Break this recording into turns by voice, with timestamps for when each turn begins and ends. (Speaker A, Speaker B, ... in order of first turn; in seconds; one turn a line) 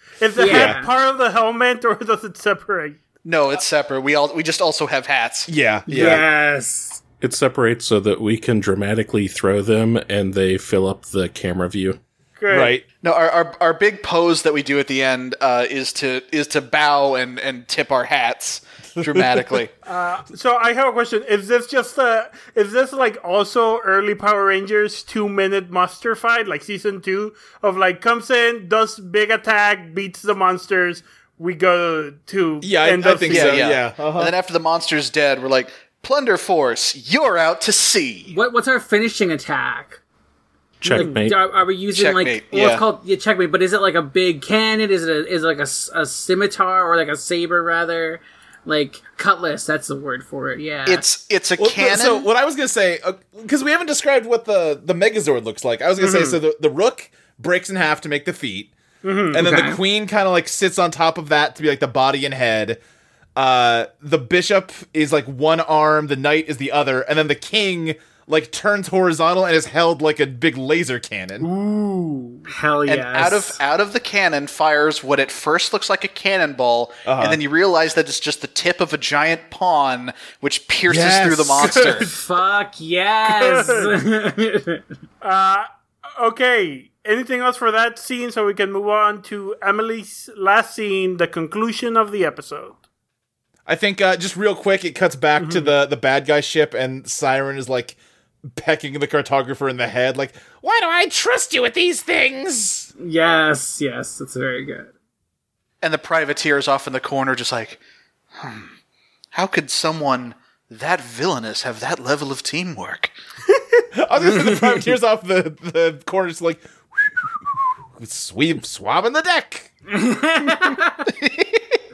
Speaker A: 0.2-3.0
Speaker B: 0.4-0.9
Speaker C: 0.4-0.8
Speaker D: 3.2-5.5
Speaker C: 5.5-6.3
Speaker B: 5.9-7.0
Speaker E: 7.2-12.0
Speaker A: 12.4-12.8
Speaker C: 12.5-12.8
Speaker D: 13.0-19.7
Speaker C: 19.0-19.5
Speaker A: 19.9-33.7
Speaker C: 32.6-34.3
Speaker D: 33.3-38.3
Speaker B: 38.3-40.0
Speaker E: 40.8-41.4
Speaker B: 40.8-51.1
Speaker A: 40.9-41.2
Speaker D: 41.9-42.9
Speaker D: 50.9-52.3
Speaker C: 51.6-58.7
Speaker A: 56.0-56.4
Speaker A: 59.0-59.4
Speaker C: 59.3-62.8
Speaker B: 59.4-59.8
Speaker C: 63.4-71.5
Speaker A: 71.4-72.5
Speaker B: 72.5-73.6
Speaker D: 72.9-82.1
Speaker C: 77.1-77.4
Speaker C: 80.9-81.8
Speaker A: 81.7-82.1
Speaker B: 82.0-84.8
Speaker A: 83.3-84.0
Speaker A: 85.2-85.7
Speaker A: 86.2-92.8
Speaker C: 93.7-98.0
Speaker A: 95.4-95.7
Speaker C: 98.5-102.9
Speaker B: 103.0-104.9
Speaker D: 105.8-107.8
Speaker D: 108.4-108.7
Speaker D: 109.3-113.1
Speaker C: 113.9-117.2
Speaker C: 118.0-119.7
Speaker B: 119.9-121.1